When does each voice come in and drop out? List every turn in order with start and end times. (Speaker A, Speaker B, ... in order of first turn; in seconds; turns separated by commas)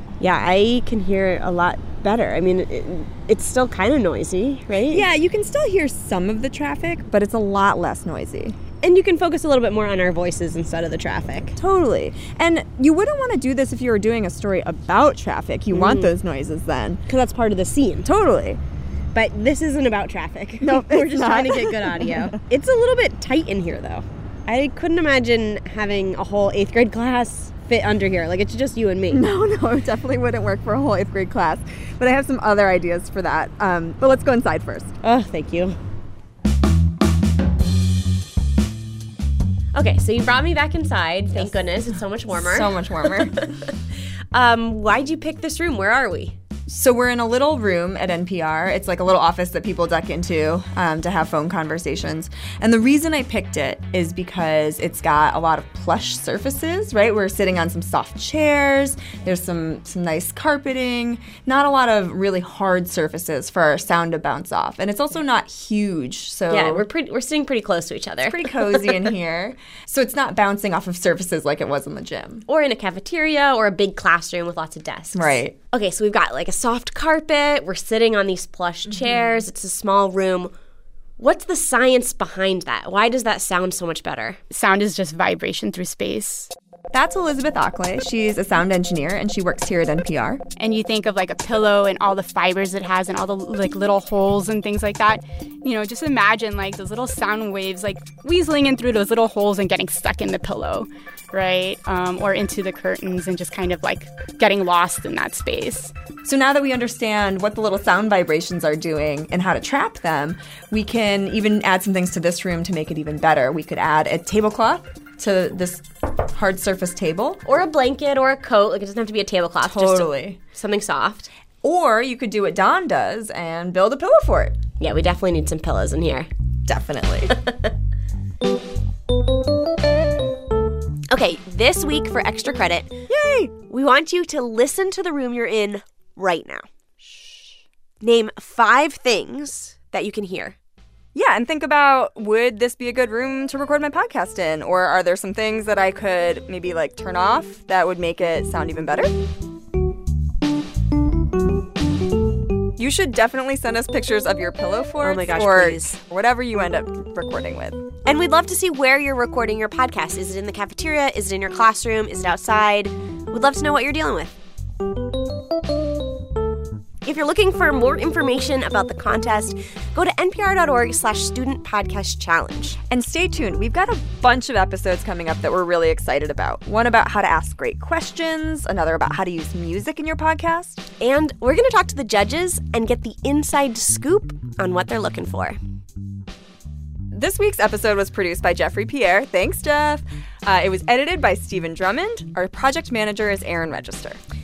Speaker A: 0.2-5.1, Speaker B: 4.9-8.6, Speaker A: 8.8-11.6, Speaker B: 11.6-17.0, Speaker A: 15.7-16.1, Speaker A: 17.1-18.1, Speaker B: 18.0-18.6, Speaker A: 19.1-29.2, Speaker B: 20.6-22.4, Speaker B: 29.1-34.9, Speaker A: 35.0-35.8, Speaker A: 39.7-43.7, Speaker B: 42.3-43.5, Speaker A: 44.3-46.4, Speaker B: 46.7-66.8, Speaker A: 66.5-68.9, Speaker B: 68.3-72.4, Speaker A: 72.5-80.5, Speaker B: 75.1-75.5, Speaker A: 81.2-84.4, Speaker C: 84.5-86.5, Speaker B: 86.9-90.4, Speaker C: 90.6-105.9, Speaker B: 106.2-117.4, Speaker A: 117.4-121.3, Speaker B: 119.6-120.4, Speaker B: 121.6-124.6, Speaker A: 124.8-126.3, Speaker B: 126.7-127.3, Speaker A: 131.1-133.0, Speaker B: 133.1-133.5, Speaker A: 133.7-136.6, Speaker B: 137.0-137.5, Speaker A: 138.0-140.6, Speaker B: 141.1-149.1, Speaker B: 152.8-157.8, Speaker A: 155.0-156.0, Speaker A: 158.1-164.3, Speaker A: 167.0-172.8, Speaker B: 172.9-180.8, Speaker A: 181.0-185.6, Speaker B: 187.1-194.2